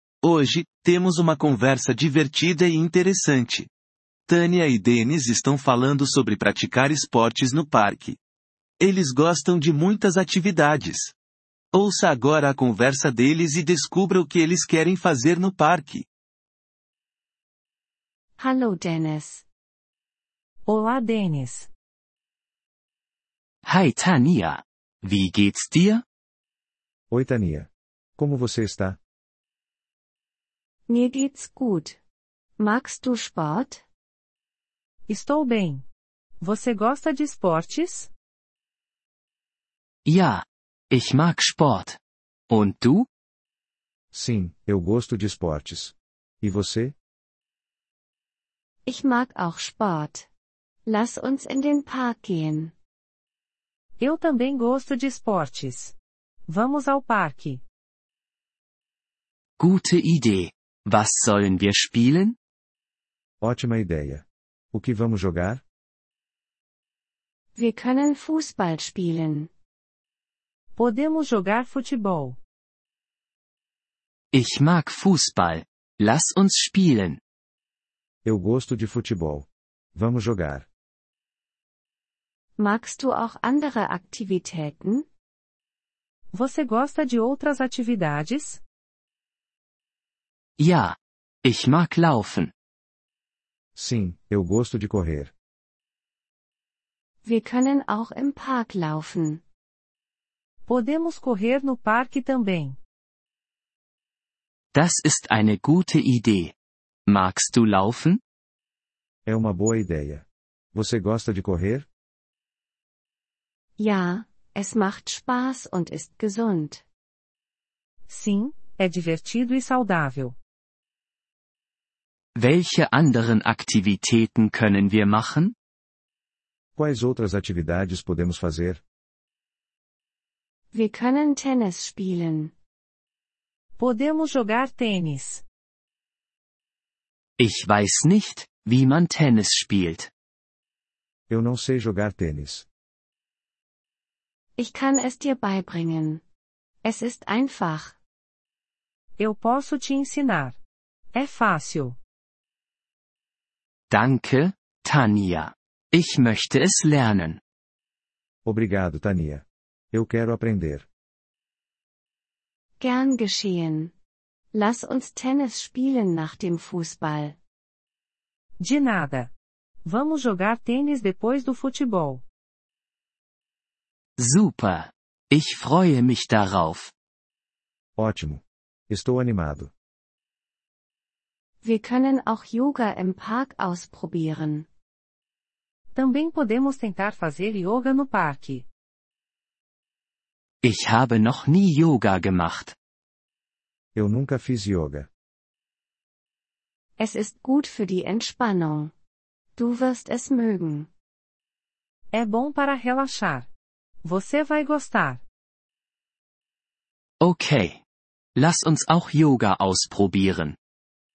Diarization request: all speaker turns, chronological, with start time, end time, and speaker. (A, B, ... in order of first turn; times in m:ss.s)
0:00.2-0:03.7 A
0:04.3-0:08.2 A
0:08.8-0:11.1 A
0:11.7-0:16.0 A
0:18.4-0:19.4 B
0:20.6-0:21.7 C
0:23.6-0:26.0 D
0:27.1-0:29.0 E
0:30.9-0:32.0 B
0:32.6-0:33.8 B
0:35.1-0:35.8 C
0:36.4-0:38.1 C
0:40.0-0:43.1 D
0:44.1-0:46.9 E
0:48.8-0:50.3 B
0:50.8-0:52.7 B
0:54.0-0:55.9 C
0:56.5-0:57.6 C
0:59.6-1:02.4 D
1:03.4-1:05.6 E
1:07.6-1:09.5 B
1:10.8-1:12.4 C
1:14.3-1:17.2 D
1:18.2-1:20.7 E
1:22.6-1:25.1 B
1:26.3-1:28.6 C
1:30.6-1:32.5 D
1:33.7-1:35.3 E
1:37.2-1:39.4 B
1:40.6-1:42.8 C
1:44.7-1:46.5 D
1:47.0-1:48.2 D
1:49.2-1:51.9 E
1:53.8-1:56.8 B
1:58.1-2:00.4 C
2:02.3-2:05.5 D
2:06.8-2:08.8 E
2:10.7-2:12.5 B
2:13.8-2:15.4 C
2:17.4-2:20.1 D
2:21.3-2:22.6 E
2:24.6-2:26.2 B
2:26.8-2:28.0 B
2:29.2-2:30.6 C
2:31.1-2:32.0 C
2:33.9-2:37.4 D
2:38.4-2:40.8 E
2:42.8-2:43.9 B
2:44.5-2:47.4 B
2:48.6-2:49.3 C
2:49.8-2:52.2 C
2:54.2-2:56.9 D
2:58.0-2:59.7 E
3:01.6-3:04.7 B
3:05.9-3:08.6 C
3:10.6-3:12.7 D
3:13.9-3:15.1 E
3:17.0-3:18.9 B
3:19.6-3:20.9 B
3:22.1-3:23.5 C
3:24.0-3:25.2 C
3:27.2-3:27.8 D
3:28.4-3:30.6 D